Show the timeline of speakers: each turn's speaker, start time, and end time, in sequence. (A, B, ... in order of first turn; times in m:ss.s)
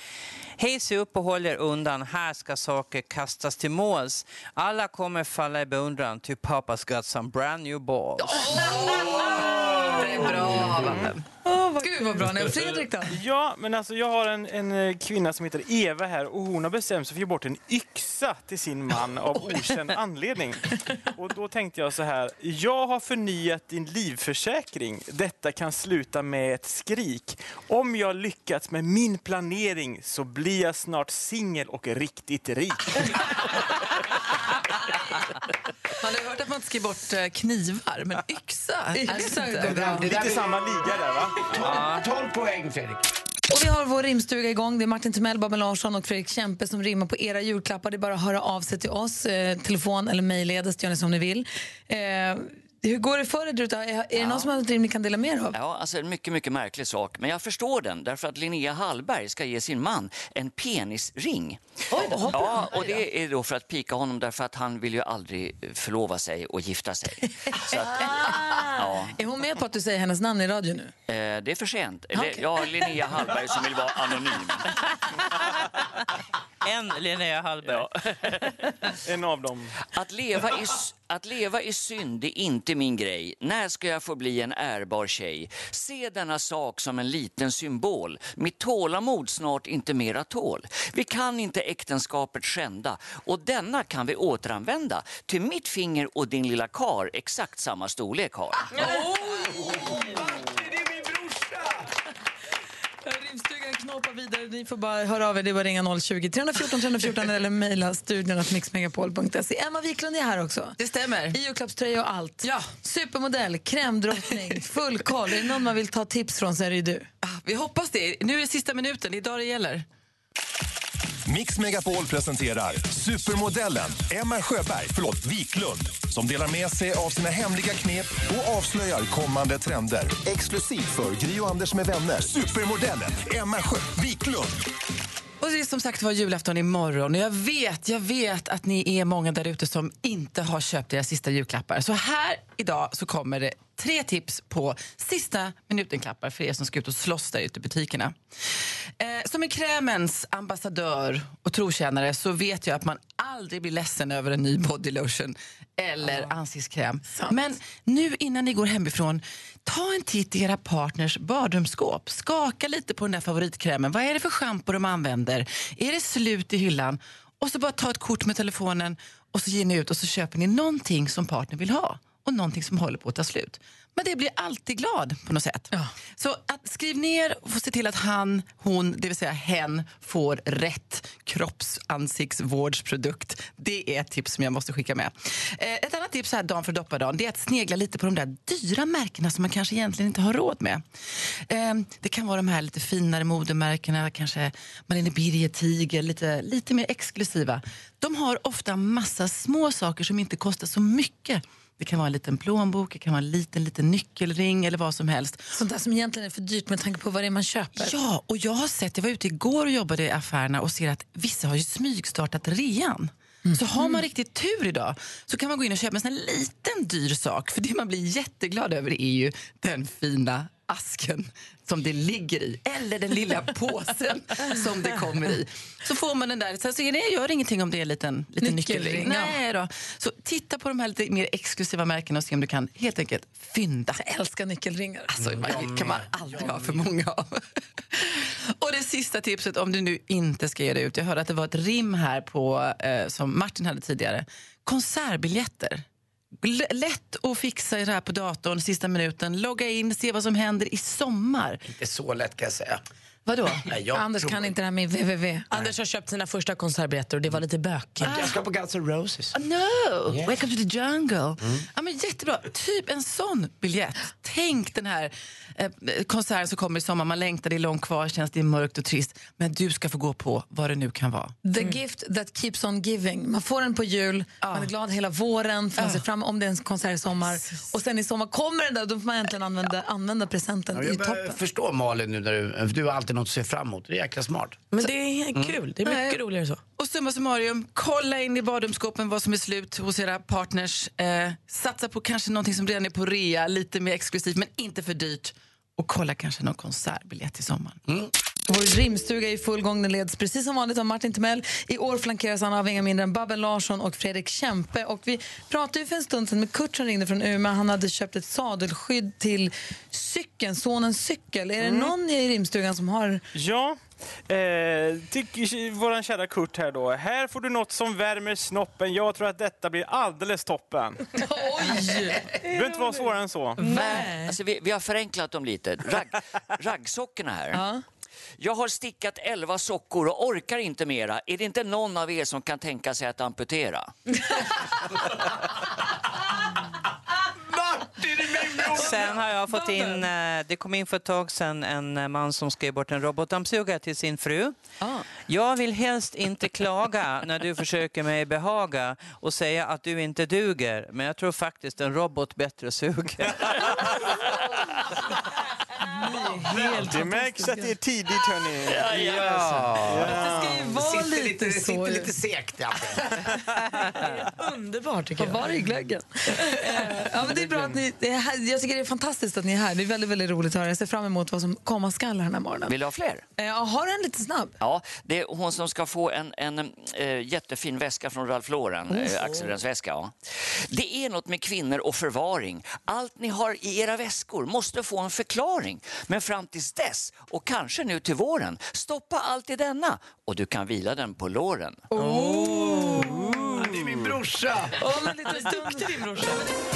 0:00.6-0:08.6 A
0:08.2-0:11.2 B
0:09.0-0:09.4 C
0:10.7-0:11.1 D
0:11.4-0:13.2 C
0:13.1-0:33.4 D
0:36.0-0:40.0 B
0:38.9-0:40.1 C
0:39.6-0:40.8 E
0:39.8-0:41.5 D
0:41.4-0:43.0 E
0:41.6-0:42.0 A
0:43.5-0:55.6 C
0:54.1-0:54.5 F
0:55.5-1:01.6 F
1:01.9-1:02.7 C
1:02.2-1:09.2 F
1:07.5-1:10.9 C
1:11.1-1:14.8 F
1:12.1-1:12.6 C
1:16.6-1:18.7 A
1:17.7-1:19.7 D
1:19.9-1:38.7 F
1:38.8-1:40.2 C
1:38.9-1:41.9 E
1:43.0-1:50.8 C
1:50.8-1:51.4 B
1:51.3-1:57.1 C
1:52.4-1:52.7 B
1:57.2-1:59.8 B
2:01.2-2:14.6 G
2:15.4-2:28.2 B
2:29.0-3:10.8 B
3:11.5-3:25.5 B
3:25.5-3:27.9 C
3:27.7-3:54.0 B
3:33.4-3:34.0 C
3:48.4-3:49.4 C
3:54.0-3:55.5 C
3:55.1-3:57.4 B
3:55.2-3:56.8 E
3:57.9-4:05.8 B
4:06.4-4:11.6 B
4:11.6-4:12.8 E
4:13.2-4:13.6 B
4:13.6-4:14.5 E
4:13.9-4:15.5 C
4:15.5-4:18.2 H
4:18.0-4:19.3 E
4:18.0-4:18.3 B
4:19.3-4:31.4 B
4:31.4-4:41.4 C
4:34.4-4:34.7 B
4:35.8-4:36.0 B
4:40.7-4:44.7 E
4:44.7-4:46.6 H
4:45.8-4:46.2 B
4:46.8-4:57.8 B
4:58.5-5:13.2 C
5:11.6-5:11.9 D
5:13.3-5:21.1 D
5:21.2-5:22.4 C
5:22.4-5:23.7 D
5:23.6-5:24.3 C
5:24.2-5:27.6 F
5:27.5-5:27.8 C
5:28.4-5:33.9 F
5:37.5-5:39.0 E
5:38.7-5:44.6 A
5:45.2-5:53.9 A
5:55.8-5:57.7 C
5:56.5-6:00.6 D
6:00.0-6:02.1 C
6:00.2-6:03.3 E
6:04.0-6:05.5 H
6:05.2-6:12.7 C
6:06.5-6:06.8 H
6:12.7-6:13.2 F
6:13.4-6:14.5 C
6:14.6-6:31.8 F
6:18.9-6:19.4 C
6:31.9-6:33.6 C
6:32.0-6:33.1 B
6:33.5-6:34.7 E
6:34.8-6:36.0 C
6:34.9-6:36.5 H